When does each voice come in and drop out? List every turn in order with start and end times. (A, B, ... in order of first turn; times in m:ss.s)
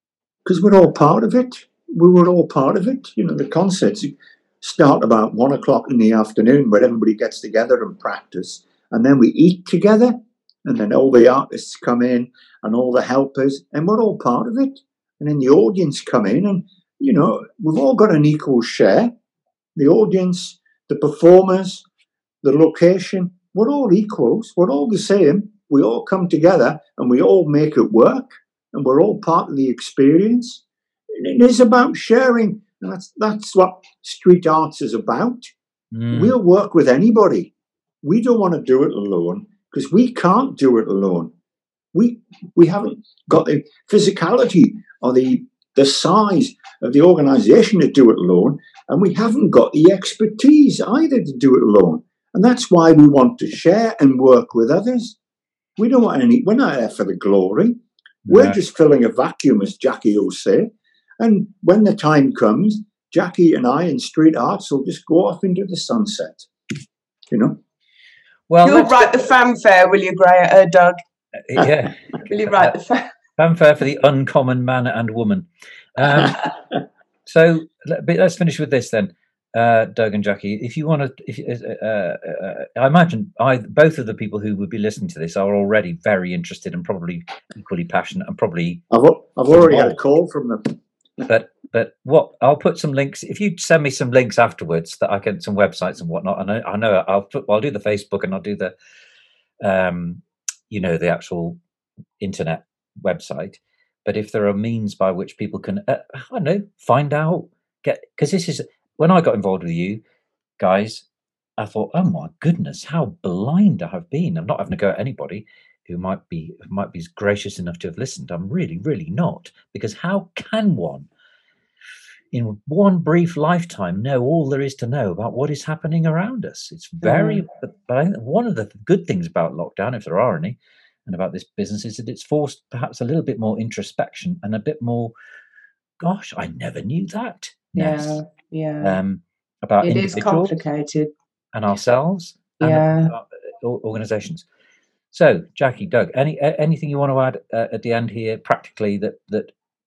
0:00.4-0:19.1 A
0:19.8-0:21.8 A
0:22.4-0:35.5 A
0:35.9-0:36.3 B
0:36.1-0:37.5 A
0:38.0-0:41.3 A
0:41.9-0:55.2 A
0:55.8-1:06.5 A
0:58.3-0:58.6 B
1:07.3-1:07.6 A
1:08.5-1:09.1 B
1:08.6-1:11.0 C
1:11.5-1:12.7 B
1:12.2-1:13.1 C
1:13.4-1:16.6 B
1:17.2-1:28.8 B
1:28.9-1:31.3 A
1:29.5-1:30.0 B
1:31.3-1:38.7 B
1:39.6-1:41.6 B
1:42.2-1:50.0 B
1:50.6-1:51.0 B
1:51.6-2:01.1 B
2:02.3-2:15.1 B
2:07.0-2:07.4 C
2:16.0-2:18.2 B
2:17.8-2:19.0 C
2:18.8-2:20.6 B
2:19.8-2:21.1 C
2:21.5-2:24.4 B
2:22.6-2:23.1 C
2:25.1-2:29.5 B